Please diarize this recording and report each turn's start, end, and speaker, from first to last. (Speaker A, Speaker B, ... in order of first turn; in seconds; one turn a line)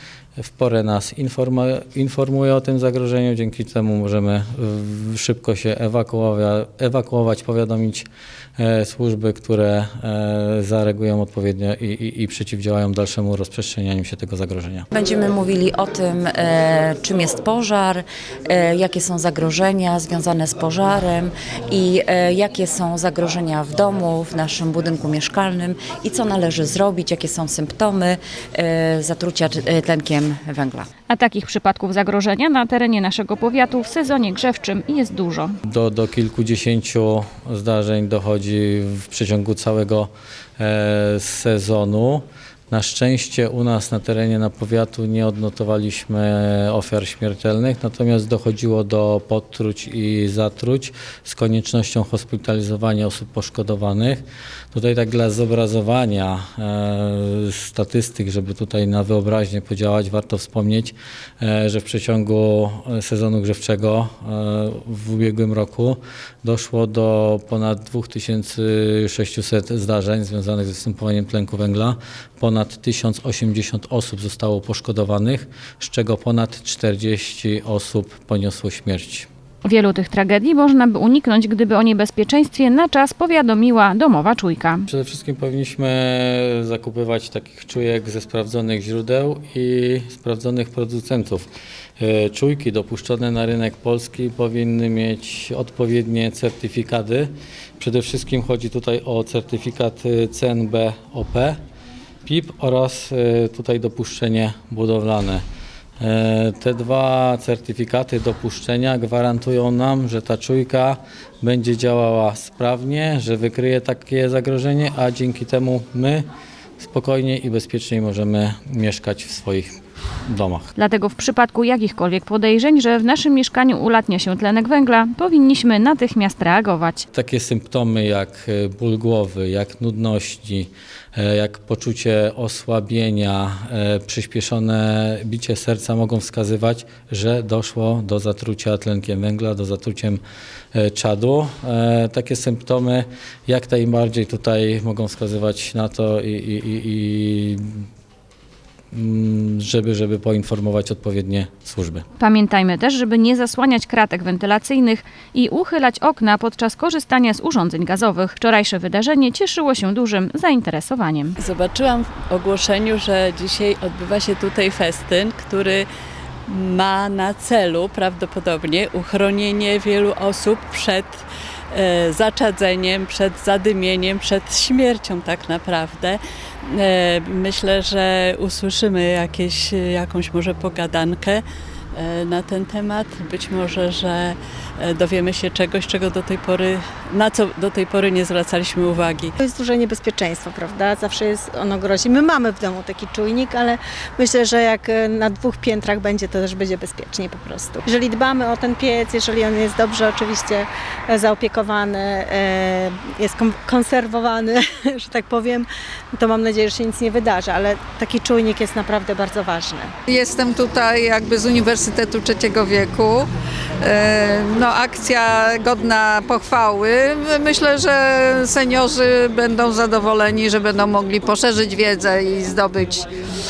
Speaker A: 0.4-8.1
Speaker A: 8.6-14.8
Speaker B: 14.9-30.9
Speaker C: 31.1-35.5
Speaker A: 35.6-79.3
Speaker C: 79.6-84.9
Speaker A: 84.9-91.5
Speaker A: 92.0-101.6
Speaker A: 102.2-105.4
Speaker A: 106.0-116.2
Speaker A: 116.8-119.7
Speaker A: 120.2-120.7
Speaker C: 120.8-127.0
Speaker A: 127.1-140.2
Speaker A: 140.7-147.8
Speaker A: 148.9-152.0
Speaker C: 152.2-161.3
Speaker D: 161.4-165.8
Speaker D: 166.5-181.4
Speaker D: 181.9-189.4
Speaker E: 189.4-209.9
Speaker F: 210.1-213.3
Speaker F: 213.8-223.1